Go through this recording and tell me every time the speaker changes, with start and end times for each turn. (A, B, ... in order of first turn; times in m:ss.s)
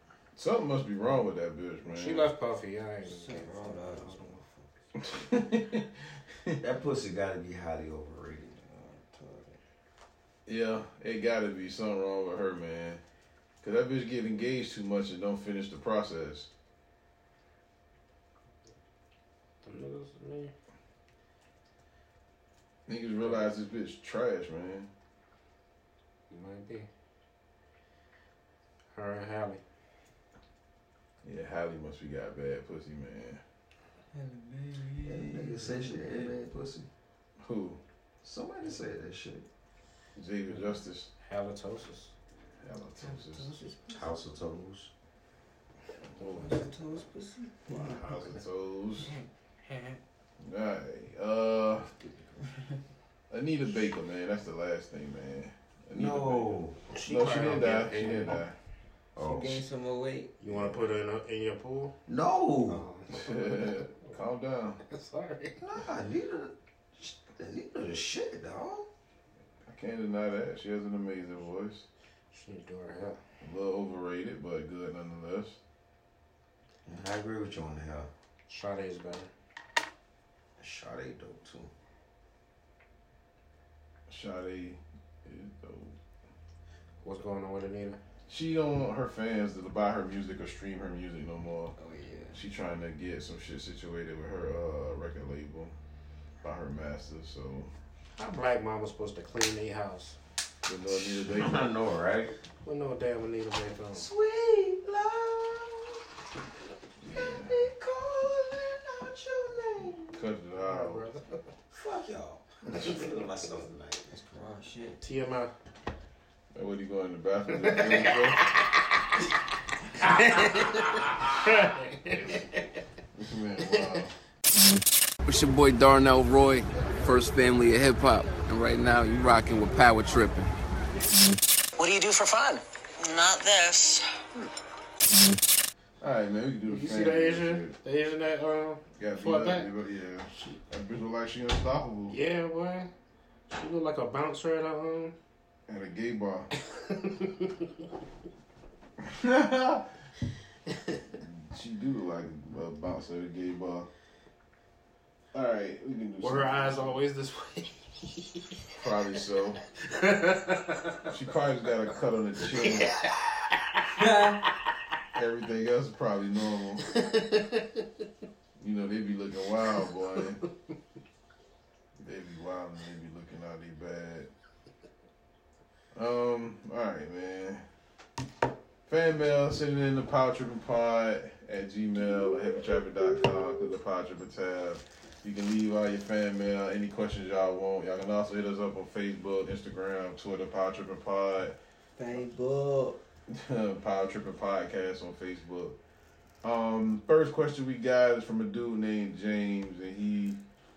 0:00.3-0:02.3 A
0:01.9-0:04.4 B
0:03.0-0:04.7 C
0:05.0-0:05.9 A
0:06.6-0:08.6 D
0:08.6-0:09.6 C
0:10.4-0:13.0 A
0:13.6-0:16.5 A
0:19.6-0:20.5 B
0:22.9-0:24.9 A
0:26.3-0:26.9 B
0:28.9-0:29.6 B
0:31.2-0:33.4 A
0:34.1-0:36.3 C
0:35.0-0:36.9 D
0:37.4-0:37.8 A
0:38.2-0:39.5 D
0:40.2-0:41.1 A
0:41.2-0:42.1 B
0:42.6-0:43.5 A
0:43.0-0:44.1 C
0:43.9-0:44.9 D
0:46.2-0:46.6 A
0:46.2-0:48.4 C
0:47.7-0:49.1 A
0:49.0-0:50.0 C
0:50.4-0:51.9 A
0:52.0-0:52.8 C
0:53.3-0:58.6 A
0:55.9-0:56.8 D
0:56.9-0:58.4 B
0:59.2-0:59.6 D
0:59.2-1:00.3 C
1:00.4-1:01.9 B
1:00.5-1:00.9 A
1:02.1-1:02.8 D
1:02.7-1:04.2 B
1:03.1-1:04.8 A
1:04.8-1:05.6 B
1:05.6-1:08.9 D
1:09.6-1:11.8 A
1:12.3-1:13.2 B
1:13.4-1:15.6 A
1:16.8-1:18.1 D
1:18.5-1:19.3 B
1:20.6-1:21.7 D
1:24.1-1:26.0 A
1:27.0-1:28.0 B
1:28.3-1:31.7 A
1:31.8-1:32.4 C
1:32.3-1:35.7 A
1:36.4-1:37.7 A
1:38.2-1:40.2 B
1:40.6-1:41.7 A
1:41.0-1:42.3 D
1:42.6-1:44.1 B
1:43.9-1:46.0 D
1:47.0-1:47.7 A
1:47.1-1:50.2 D
1:50.1-1:51.0 A
1:50.6-1:51.4 B
1:51.7-1:54.2 D
1:54.1-1:55.0 C
1:55.0-1:55.5 B
1:56.5-1:58.5 A
1:57.6-1:59.0 B
2:00.0-2:02.5 B
2:03.1-2:04.1 A
2:05.2-2:10.5 E
2:11.8-2:14.1 F
2:16.0-2:17.8 A
2:16.7-2:19.7 B
2:19.0-2:22.2 A
2:22.1-2:22.9 B
2:23.5-2:25.1 B
2:25.7-2:26.5 A
2:26.6-2:27.8 B
2:29.0-2:29.9 A
2:31.2-2:33.9 A
2:35.3-2:37.0 A
2:36.2-2:38.6 B
2:38.8-2:39.6 A
2:39.8-2:41.1 B
2:41.1-2:43.0 A
2:43.9-2:44.4 C
2:45.1-2:47.0 A
2:46.9-2:47.8 B
2:48.6-2:50.4 A
2:52.0-2:54.3 A
2:55.9-2:57.6 A
2:58.9-3:11.6 A
3:12.0-3:13.0 C
3:13.3-3:15.8 A
3:16.4-3:20.4 A